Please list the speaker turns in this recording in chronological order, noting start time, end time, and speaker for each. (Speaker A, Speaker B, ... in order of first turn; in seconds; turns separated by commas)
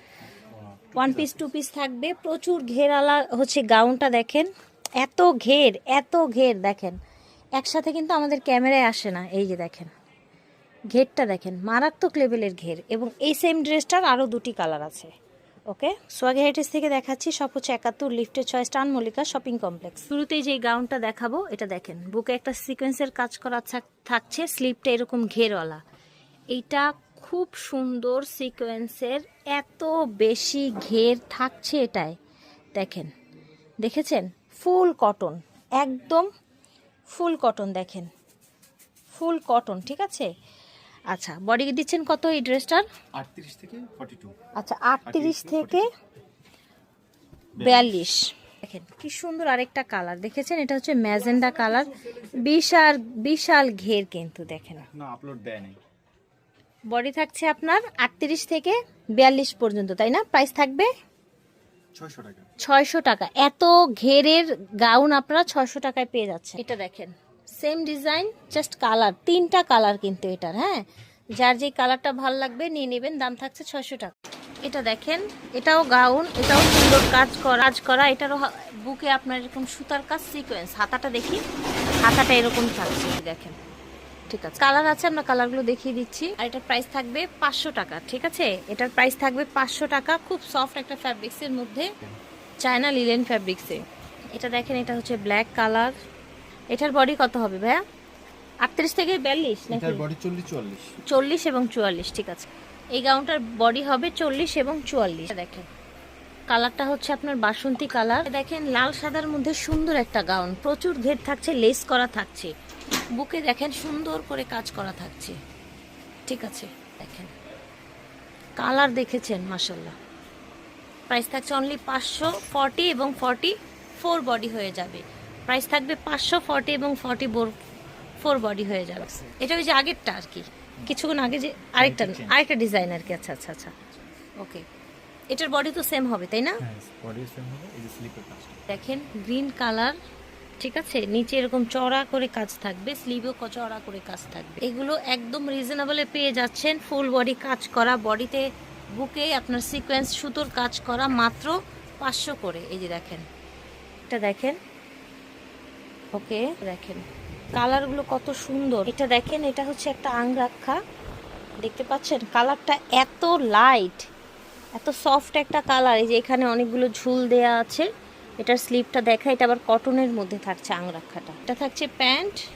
Speaker A: 0.4-1.4, Speaker B: 0.9-4.5, Speaker B: 5.0-7.0, Speaker B: 7.6-9.9, Speaker B: 10.9-15.1, Speaker B: 15.7-25.8, Speaker B: 26.5-32.2, Speaker B: 32.7-33.1, Speaker B: 33.8-36.3, Speaker B: 37.1-38.1, Speaker B: 39.1-40.3, Speaker B: 41.1-42.8, Speaker A: 43.2-44.3, Speaker B: 44.6-45.9, Speaker A: 45.0-45.9, Speaker A: 47.5-48.0, Speaker B: 47.6-54.9, Speaker A: 54.9-55.8, Speaker B: 56.9-60.9, Speaker A: 62.0-62.5, Speaker B: 62.6-70.8, Speaker B: 71.4-81.4, Speaker B: 82.0-83.6, Speaker B: 84.3-91.9, Speaker B: 92.6-96.0, Speaker B: 96.7-97.8, Speaker B: 98.6-100.0, Speaker A: 99.7-100.9, Speaker B: 101.1-105.7, Speaker B: 106.5-112.5, Speaker B: 113.1-115.4, Speaker B: 116.3-117.3, Speaker B: 118.6-119.9, Speaker B: 121.1-127.5, Speaker B: 128.2-133.7, Speaker A: 131.8-132.4, Speaker B: 134.4-134.6, Speaker B: 135.3-136.6, Speaker A: 136.6-138.6, Speaker B: 138.7-140.0, Speaker B: 140.6-148.4, Speaker B: 148.9-153.2, Speaker B: 154.1-154.6, Speaker B: 156.1-160.8, Speaker B: 161.6-164.1, Speaker B: 164.8-167.9, Speaker B: 168.4-172.4